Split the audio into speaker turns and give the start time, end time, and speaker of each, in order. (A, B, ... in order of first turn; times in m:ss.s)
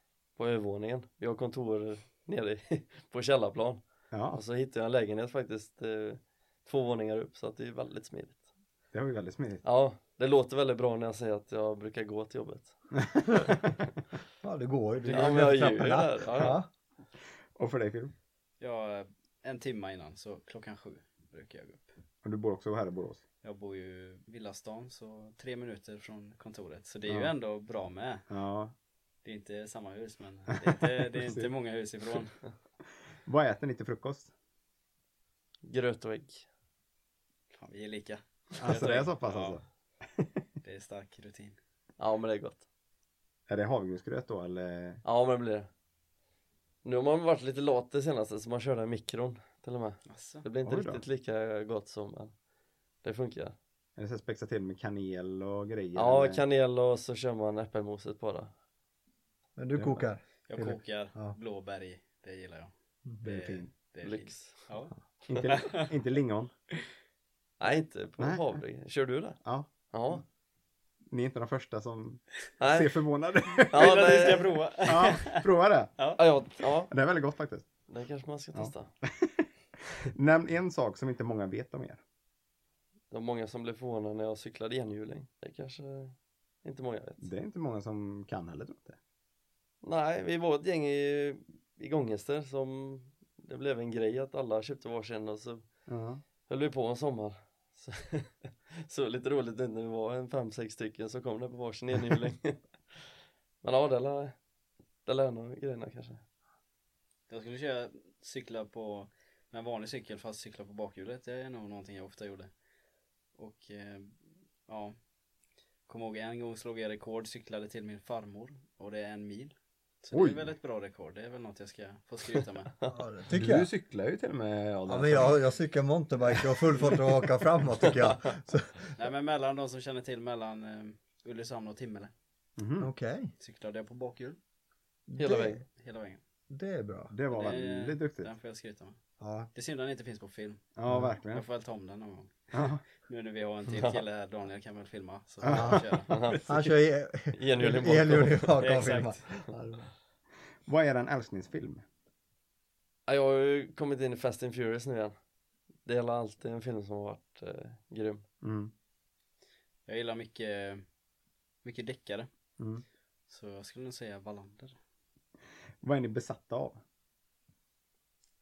0:00.4-0:08.4 A
0:04.1-0:04.4 B
0:08.9-0:09.6 B
0:09.6-0:12.7 A
0:13.0-0:13.8 B
0:14.4-0:16.7 C
0:15.1-0:15.5 D
0:15.1-0:16.6 A
0:17.5-0:18.1 B
0:18.6-0:21.9 D
0:22.2-0:23.2 B
0:23.4-0:28.3 D
0:27.1-0:27.3 B
0:28.3-0:28.7 B
0:29.2-0:32.4 D
0:30.6-0:31.5 B
0:33.2-0:34.3 B
0:35.6-0:36.5 A
0:37.5-0:39.6 D
0:38.6-0:39.6 B
0:40.6-0:41.6 D
0:42.0-0:42.6 A
0:43.5-0:45.0 B
0:45.0-0:45.7 A
0:46.8-0:52.3 A
0:50.0-0:50.4 D
0:50.6-0:51.0 B
0:53.0-0:53.6 A
0:54.0-0:56.4 B
0:55.9-0:58.5 A
0:59.6-1:01.4 C
0:59.8-1:00.0 B
1:00.5-1:04.9 D
1:03.2-1:03.7 B
1:04.0-1:04.7 A
1:05.3-1:06.5 B
1:05.5-1:05.9 D
1:07.6-1:10.2 A
1:08.2-1:08.6 B
1:09.4-1:10.2 B
1:11.1-1:14.1 B
1:12.6-1:13.0 A
1:13.6-1:15.4 D
1:13.7-1:14.6 A
1:14.8-1:15.9 B
1:16.2-1:16.9 A
1:16.9-1:17.7 B
1:17.9-1:18.9 A
1:18.5-1:22.0 B
1:23.1-1:27.3 A
1:27.2-1:29.0 B
1:29.8-1:35.6 A
1:35.9-1:36.2 B
1:36.4-1:42.6 A
1:43.6-1:44.3 A
1:45.0-1:46.2 A
1:47.3-1:52.5 D
1:53.4-1:54.2 D
1:54.7-1:54.9 D
1:55.9-2:02.7 D
2:00.1-2:00.5 B
2:02.9-2:03.7 C
2:03.3-2:05.4 B
2:04.9-2:09.0 C
2:07.8-2:08.1 A
2:09.0-2:12.1 D
2:12.6-2:12.9 B
2:12.8-2:13.3 C
2:13.4-2:14.4 D
2:15.1-2:15.6 C
2:15.2-2:15.6 A
2:15.7-2:16.2 D
2:16.5-2:17.1 C
2:17.1-2:18.3 B
2:17.3-2:19.0 D
2:19.2-2:19.5 C
2:19.5-2:20.7 D
2:20.8-2:21.4 B
2:20.9-2:21.1 C
2:21.3-2:26.4 D
2:22.5-2:22.8 B
2:23.7-2:24.0 A
2:25.4-2:25.9 B
2:25.5-2:25.8 C
2:26.1-2:26.5 A
2:26.4-2:29.9 C
2:27.3-2:28.9 A
2:28.6-2:29.3 D
2:30.6-2:31.8 B
2:33.1-2:35.1 A
2:35.8-2:38.2 A
2:38.4-2:38.7 B
2:39.9-2:40.8 D
2:41.6-2:42.3 D
2:42.6-2:42.8 B
2:43.3-2:44.8 D
2:45.8-2:46.8 B